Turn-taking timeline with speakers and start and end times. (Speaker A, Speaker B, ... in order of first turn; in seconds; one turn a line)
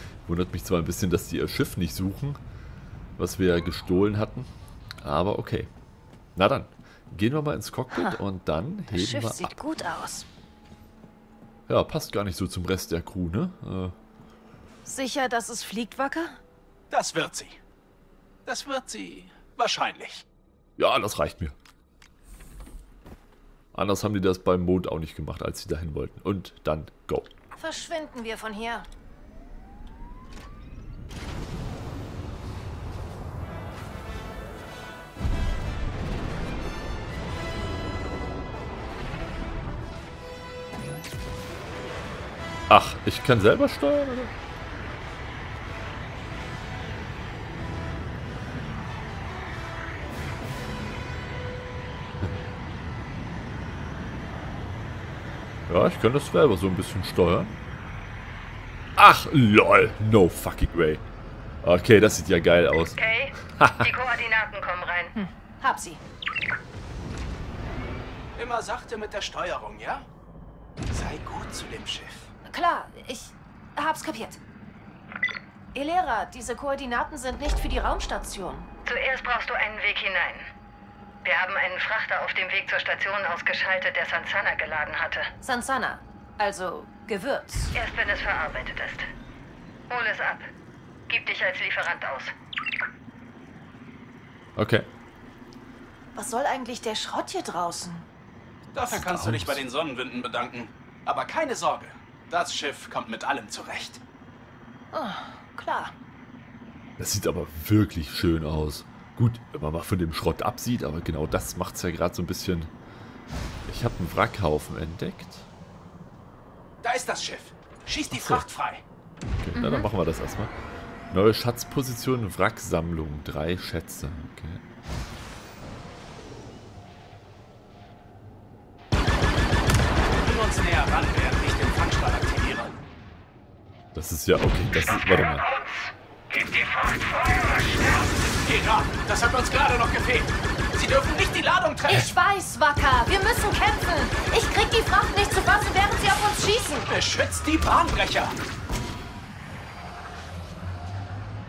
Speaker A: 0.2-2.4
Speaker A: 3.2-4.5
Speaker A: 5.0-5.7
Speaker A: 6.4-9.5
Speaker B: 7.9-8.2
Speaker B: 8.9-10.3
Speaker A: 11.7-13.9
Speaker B: 14.8-16.4
Speaker C: 16.9-17.6
Speaker C: 18.4-20.2
Speaker A: 20.8-21.6
Speaker A: 23.7-27.3
Speaker B: 27.6-28.9
Speaker A: 42.7-44.3
Speaker A: 55.7-57.5
Speaker A: 59.0-61.0
Speaker A: 61.6-63.9
Speaker D: 63.0-65.1
Speaker B: 65.2-66.0
Speaker C: 68.3-70.0
Speaker C: 70.9-72.3
Speaker B: 72.5-74.4
Speaker B: 75.7-78.7
Speaker D: 78.8-80.5
Speaker D: 81.2-85.3
Speaker B: 85.4-87.7
Speaker D: 87.7-89.1
Speaker D: 89.9-90.5
Speaker D: 91.1-92.3
Speaker A: 94.5-94.9
Speaker B: 96.1-98.1
Speaker C: 98.7-104.0
Speaker A: 98.9-99.6
Speaker B: 104.9-106.0
Speaker A: 107.0-112.7
Speaker A: 113.7-115.5
Speaker C: 116.8-118.8
Speaker A: 118.1-118.4
Speaker A: 119.4-120.5
Speaker B: 119.6-119.9
Speaker A: 121.1-124.6
Speaker C: 130.2-132.8
Speaker A: 133.9-135.4
Speaker C: 138.4-142.1
Speaker B: 141.9-146.9
Speaker C: 146.9-148.4